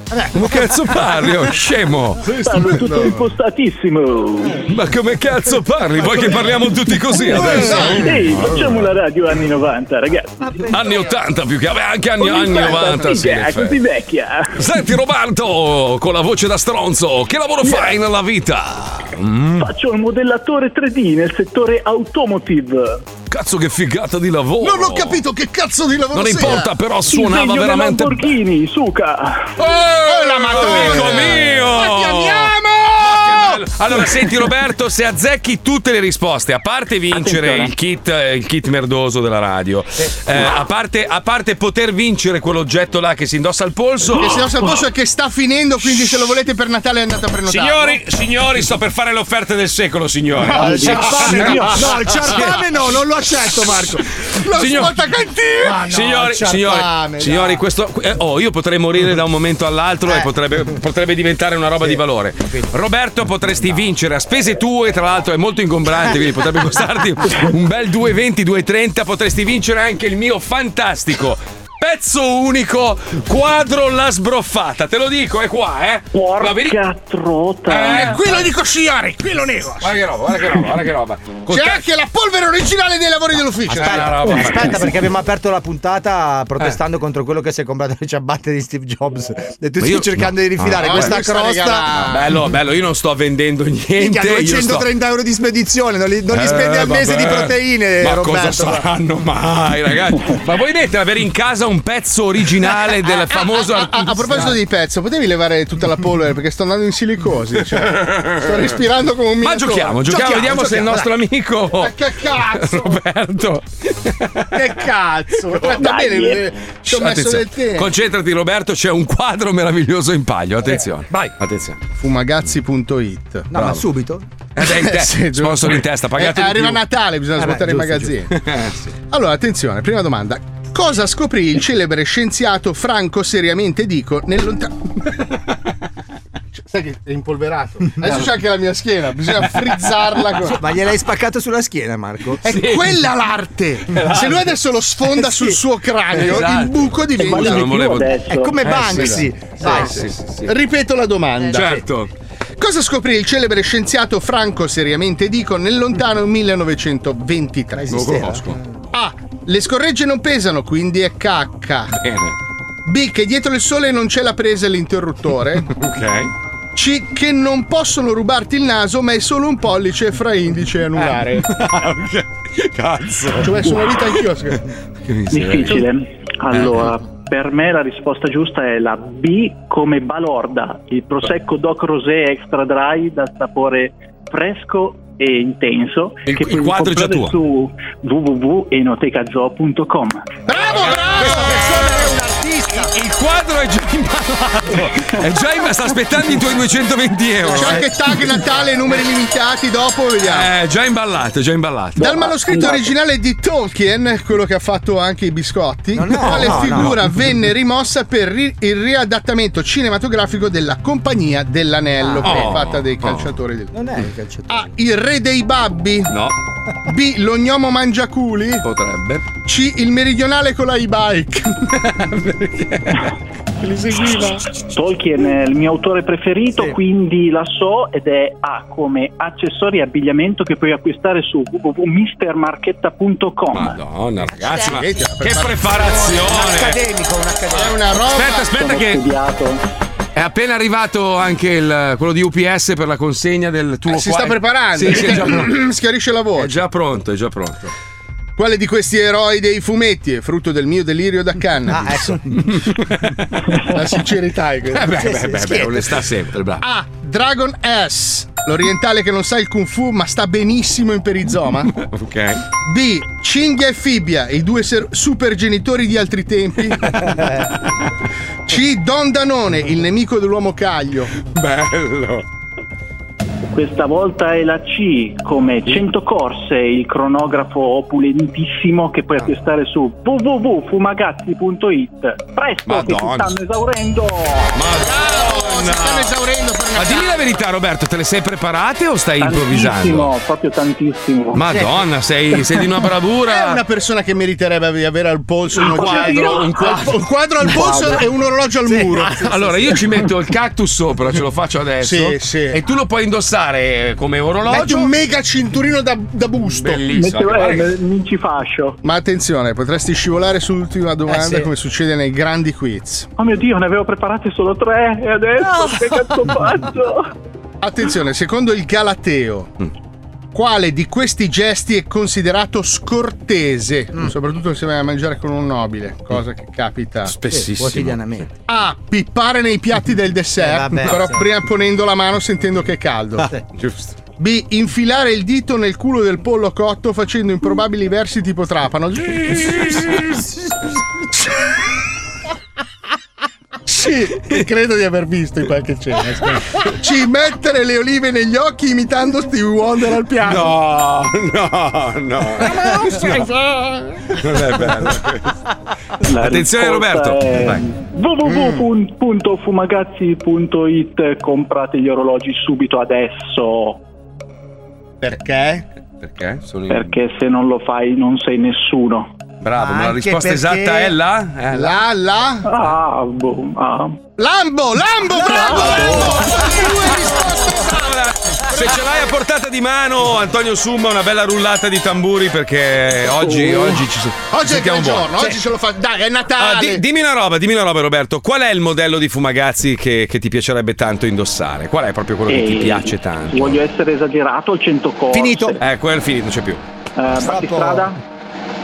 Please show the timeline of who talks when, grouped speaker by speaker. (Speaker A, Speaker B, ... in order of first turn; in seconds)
Speaker A: 0.1-0.5, 7.4-8.0, 50.5-54.0, 55.6-57.6, 83.8-91.9, 94.0-98.9, 110.1-111.1, 123.5-124.2, 127.3-128.1, 140.4-142.4, 145.2-145.6, 148.2-150.0, 157.8-158.6, 191.2-192.9, 197.4-197.8, 205.9-207.1, 212.0-212.5, 213.7-214.7, 236.1-237.8, 251.7-252.4, 254.9-255.9, 298.7-299.1, 311.1-311.5, 327.3-328.3, 330.4-331.2, 369.5-370.9, 375.7-376.1, 395.1-395.6, 397.1-397.9
Speaker B: 0.3-2.8, 4.6-8.7, 10.7-13.8, 14.5-19.7, 23.3-25.2, 26.1-28.4, 29.6-44.8, 47.4-52.6, 54.5-55.0, 55.7-76.8, 77.7-78.4, 79.8-81.8, 83.7-84.9, 89.8-91.2, 92.0-94.9, 96.3-104.5, 107.7-108.6, 109.4-114.7, 115.4-115.8, 116.8-121.8, 123.5-123.8, 124.5-126.8, 128.3-128.9, 142.4-142.9, 143.9-144.5, 146.1-150.5, 151.5-152.1, 157.9-158.6, 161.9-162.3, 165.7-166.3, 171.1-174.0, 175.1-175.8, 176.5-176.8, 186.2-187.3, 190.8-191.5, 192.8-197.9, 200.2-202.2, 206.2-206.9, 212.2-213.3, 216.1-216.3, 218.6-219.2, 221.7-223.1, 223.9-224.3, 233.5-236.8, 238.1-239.1, 240.1-245.5, 246.3-247.7, 252.4-253.7, 254.7-256.6, 261.7-262.4, 266.9-267.5, 271.2-272.2, 282.6-283.3, 284.5-286.1, 286.7-290.1, 291.3-293.6, 295.6-297.0, 299.1-304.9, 306.5-307.7, 327.1-328.1, 333.6-334.0, 350.2-353.3, 354.1-355.3, 356.1-357.6, 366.0-366.9, 369.4-371.8, 375.6-385.4, 386.4-393.6, 395.6-396.6
Speaker C: 2.2-3.2, 7.3-8.1, 24.6-26.8, 29.9-34.2, 44.1-48.0, 50.4-51.7, 54.4-56.1, 77.9-80.6, 81.5-84.5, 90.7-92.4, 103.1-110.7, 111.7-113.0, 114.5-117.9, 121.9-123.5, 124.6-128.3, 129.1-134.8, 136.6-140.6, 142.4-147.8, 149.6-151.8, 152.6-158.2, 158.9-161.9, 162.8-165.7, 166.7-171.5, 173.4-174.6, 190.5-191.9, 197.5-200.5, 202.0-213.7, 214.5-216.1, 216.8-218.6, 219.4-221.6, 223.7-224.4, 234.5-236.3, 237.5-238.5, 243.8-246.6, 248.4-252.1, 253.6-255.1, 256.6-261.7, 262.6-266.9, 268.5-271.1, 284.7-287.4, 293.2-299.7, 301.8-302.6, 304.4-306.9, 308.8-313.1, 317.6-319.5, 320.3-327.1, 328.5-333.3, 334.2-340.1, 343.7-350.5, 352.4-354.0, 365.0-365.6, 371.5-372.4, 374.2-379.1, 384.2-386.8
Speaker D: 2.4-4.6, 7.4-10.6, 12.2-14.5, 17.6-18.0, 19.6-23.0, 27.0-29.5, 37.1-37.7, 76.1-78.2, 115.7-116.5, 147.2-148.6, 175.3-190.3, 224.7-233.8, 238.5-239.6, 273.5-284.6, 289.2-291.5, 295.5-296.6, 297.5-298.0, 306.9-308.8, 313.2-317.1, 356.0-363.8, 366.7-369.1, 372.4-374.0, 383.2-383.7, 392.3-395.6, 396.9-398.0